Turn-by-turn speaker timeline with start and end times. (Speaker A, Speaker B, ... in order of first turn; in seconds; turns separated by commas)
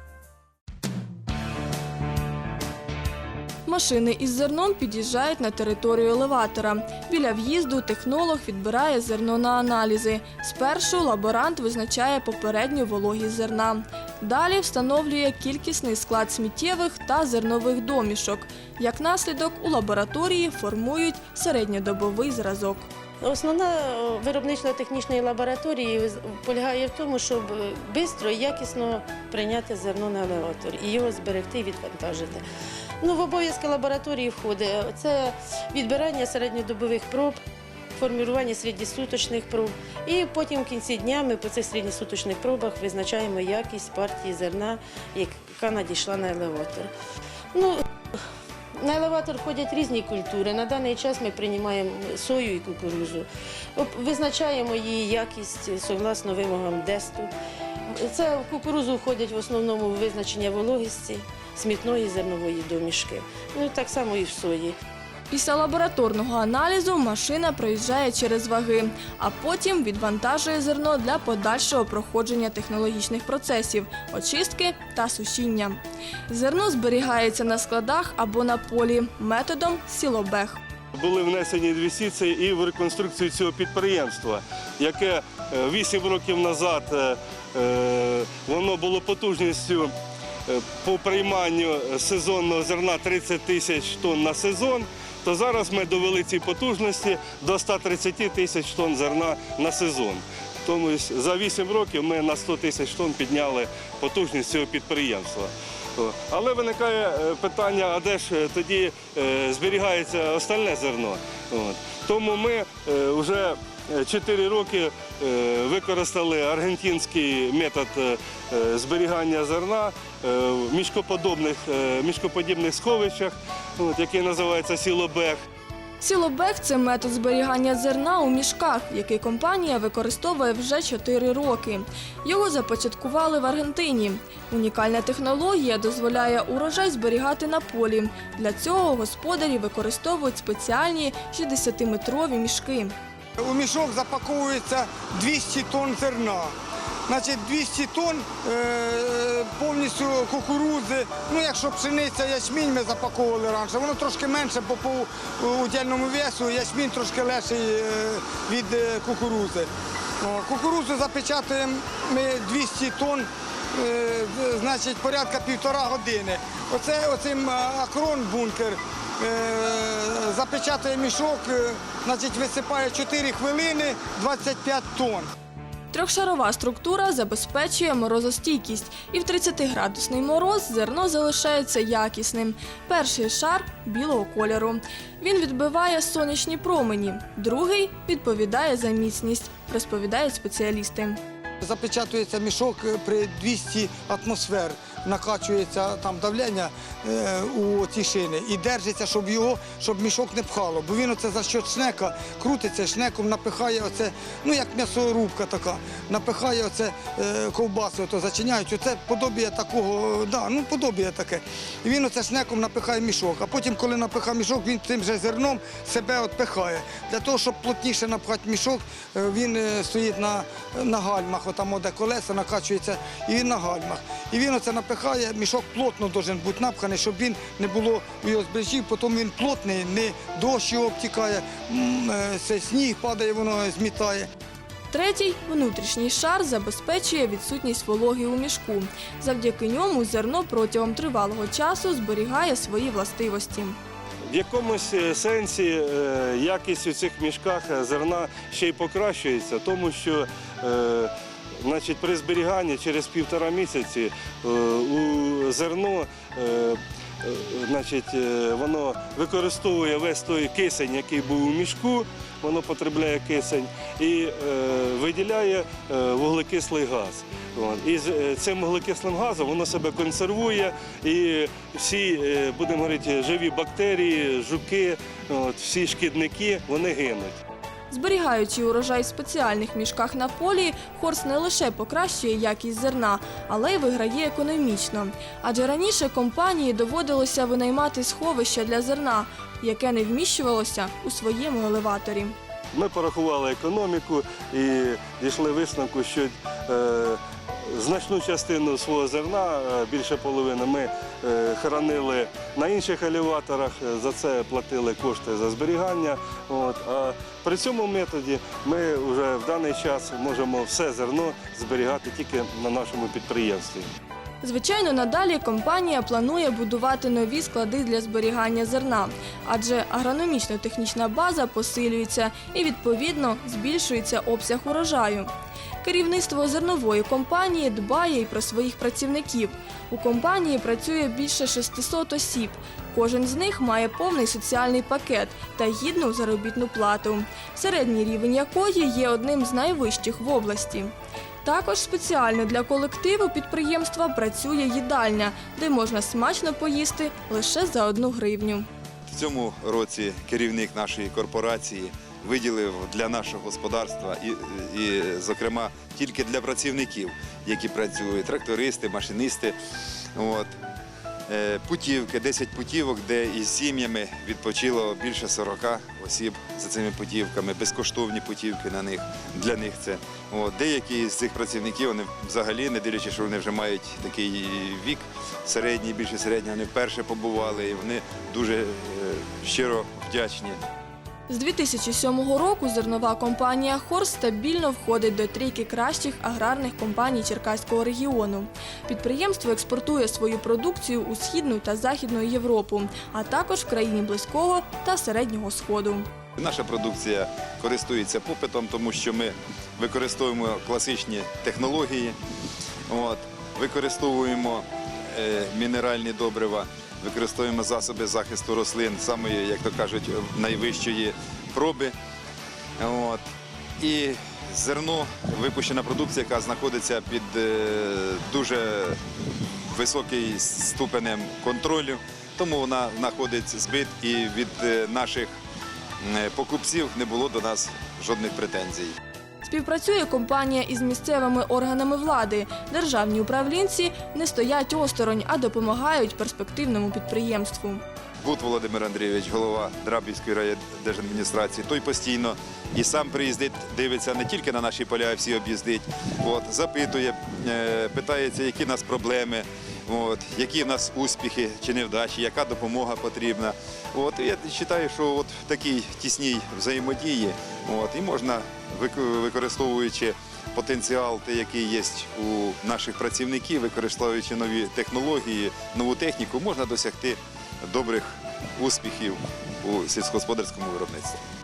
Speaker A: 3.6-22.9, Speaker B: 23.2-32.4, Speaker B: 33.0-37.4, Speaker B: 38.0-46.9, Speaker B: 47.5-47.8, Speaker B: 48.8-57.3, Speaker B: 57.9-64.8, Speaker A: 65.3-80.6, Speaker C: 80.9-89.9, Speaker C: 90.5-125.4, Speaker A: 126.0-142.9, Speaker D: 143.4-146.5, Speaker D: 147.1-175.3, Speaker A: 175.9-191.2, Speaker D: 191.6-234.3, Speaker A: 234.9-243.8, Speaker C: 244.3-277.4, Speaker A: 277.9-292.4, Speaker C: 292.7-313.9, Speaker A: 314.4-325.3, Speaker A: 325.8-340.9, Speaker A: 341.4-348.6, Speaker E: 349.1-359.6, Speaker E: 360.1-360.5, Speaker E: 361.3-380.6, Speaker A: 381.3-396.1, Speaker E: 396.4-402.1, Speaker E: 402.9-411.9, Speaker E: 412.8-413.2, Speaker E: 413.8-419.0, Speaker E: 419.7-425.3, Speaker E: 426.0-428.9, Speaker A: 429.4-437.8, Speaker E: 438.2-471.2